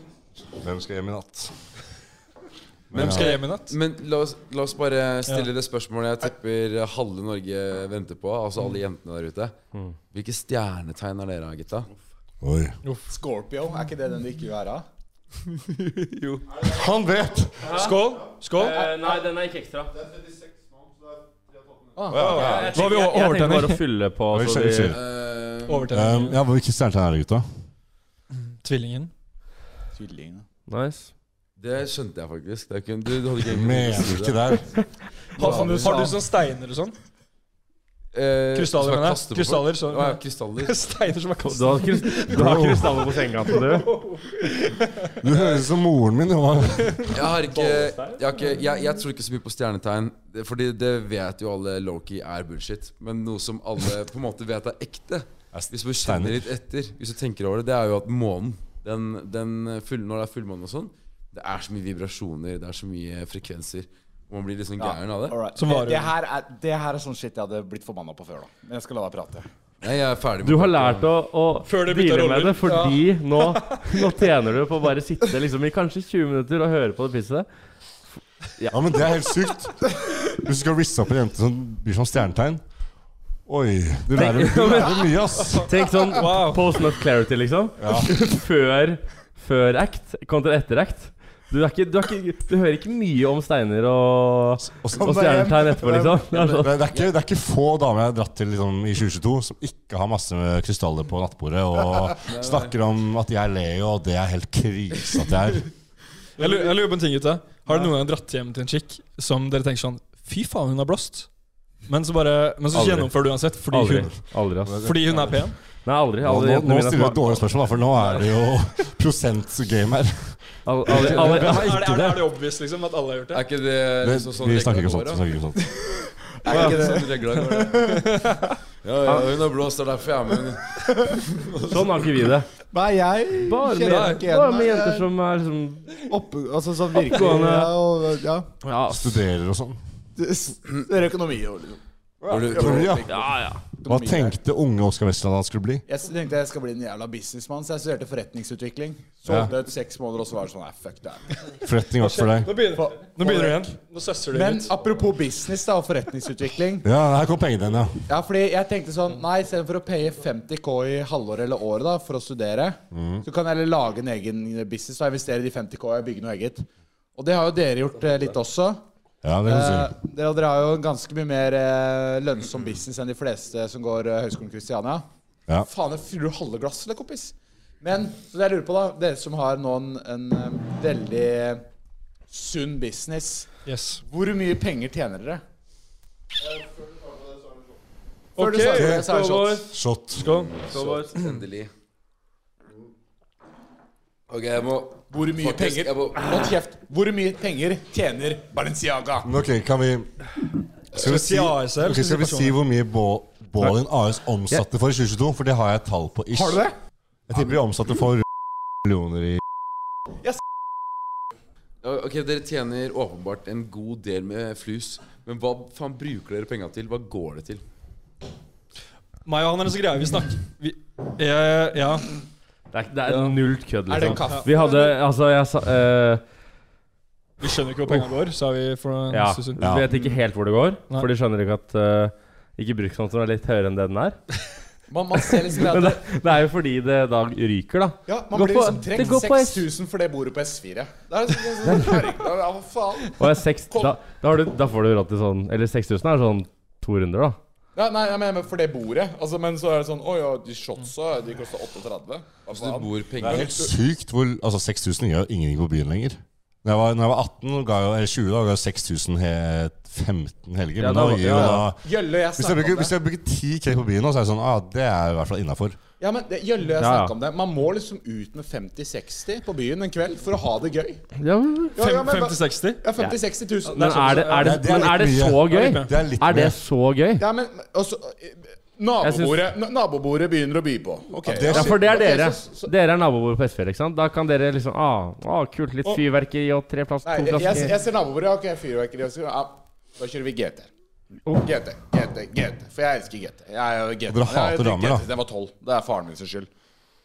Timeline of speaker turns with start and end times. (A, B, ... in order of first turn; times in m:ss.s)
0:00.5-0:01.5 A
0:02.9-0:03.4 A
0:02.9-0:09.5 B
0:02.9-0:03.7 C
0:10.1-0:11.9 B
0:12.4-0:12.7 A
0:13.1-0:14.8 D
0:15.7-0:16.4 B
0:16.6-0:17.7 A
0:17.6-0:18.0 E
0:17.7-0:18.8 C
0:18.5-0:20.0 E
0:18.8-0:19.2 D
0:22.0-0:22.7 D
0:22.1-0:22.7 A
0:22.1-0:23.8 C
0:22.3-0:24.9 E
0:24.3-0:25.0 A
0:24.9-0:25.9 B
0:25.7-0:26.4 C
0:25.9-0:27.4 A
0:28.6-0:29.1 C
0:29.9-0:30.4 D
0:30.7-0:31.1 E
0:31.6-0:34.6 B
0:33.4-0:34.7 A
0:35.4-0:36.2 D
0:35.4-0:36.0 B
0:35.4-0:37.0 C
0:38.1-0:40.8 B
0:38.5-0:45.2 C
0:41.4-0:43.9 E
0:42.3-0:42.8 A
0:45.2-0:47.1 A
0:46.8-0:48.1 C
0:47.1-1:05.4 B
0:55.5-0:56.4 A
1:04.8-1:09.5 D
1:05.5-1:06.1 C
1:09.8-1:11.1 B
1:10.4-1:17.4 E
1:11.6-1:14.1 C
1:18.7-1:22.6 A
1:23.5-1:25.7 A
1:24.1-1:36.7 E
1:25.5-1:26.6 C
1:27.8-1:28.1 A
1:34.6-1:35.2 A
1:34.9-1:36.2 D
1:36.3-1:37.1 B
1:36.6-1:45.7 A
1:42.3-1:42.7 B
1:46.4-1:51.3 C
1:51.9-1:54.2 C
1:52.7-1:53.1 A
1:53.7-1:54.9 E
1:54.6-1:55.2 A
1:54.7-1:55.5 C
1:55.8-1:57.4 E
1:56.2-2:02.2 A
2:00.6-2:02.1 E
2:00.9-2:03.4 C
2:03.3-2:05.2 B
2:04.0-2:05.6 A
2:05.9-2:08.3 D
2:06.4-2:07.9 B
2:07.9-2:08.4 C
2:08.8-2:10.8 B
2:10.8-2:11.2 D
2:11.6-2:12.5 E
2:12.7-2:15.1 D
2:13.4-2:16.0 E
2:13.8-2:14.3 C
2:16.0-2:18.5 D
2:16.9-2:17.7 E
2:18.6-2:19.1 E
2:18.9-2:19.8 A
2:20.2-2:21.8 D
2:22.2-2:23.1 A
2:22.3-2:23.2 B
2:22.3-2:24.4 D
2:23.1-2:23.6 E
2:23.8-2:25.8 A
2:25.9-2:31.4 D
2:29.2-2:29.5 A
2:31.6-2:32.5 A
2:32.0-2:34.7 C
2:32.7-2:33.7 D
2:34.3-2:36.9 D
2:36.8-2:38.0 A
2:38.1-2:48.8 D
2:42.9-2:43.2 A
2:49.2-2:49.9 A
2:49.4-2:55.0 D
2:55.6-3:01.6 D
3:02.3-3:03.5 D
3:03.6-3:04.0 C
3:04.0-3:05.4 D
3:08.4-3:09.5 C
3:08.4-3:09.7 D
3:08.7-3:09.1 A
3:09.1-3:09.6 E
3:09.7-3:10.3 A
3:10.2-3:10.6 C
3:10.2-3:11.7 B
3:10.7-3:11.2 E
3:14.3-3:16.5 B
3:15.1-3:19.3 D
3:19.2-3:20.1 A
3:20.9-3:26.6 A
3:20.9-3:22.6 C
3:26.3-3:26.7 D
3:27.3-3:28.2 A
3:28.8-3:29.4 A
3:31.8-3:37.6 B
3:39.2-3:42.1 C
3:42.7-3:46.2 E
3:43.9-3:45.0 D
3:44.1-3:44.4 C
3:47.4-3:49.6 C
3:49.1-3:54.2 E
3:49.6-3:49.9 A
3:54.9-3:56.0 D
3:55.7-3:59.6 E
3:58.1-4:03.9 D
4:01.6-4:01.9 E
4:03.2-4:07.4 E
4:07.7-4:13.7 D
4:12.5-4:13.6 B
4:13.2-4:25.8 A
4:20.8-4:21.6 E
4:21.4-4:22.9 D
4:26.0-4:31.0 D
4:26.8-4:27.1 E
4:31.2-4:31.8 E
4:31.8-4:34.5 D
4:31.8-4:32.8 C
4:33.7-4:37.2 E
4:33.7-4:34.8 C
4:34.4-4:36.6 A
4:35.4-4:36.0 C
4:37.2-4:42.7 D
4:39.0-4:39.4 E
4:41.2-4:41.8 A
4:41.5-4:47.7 E
4:47.0-4:50.7 D
4:51.3-4:56.5 D
4:54.1-4:55.1 A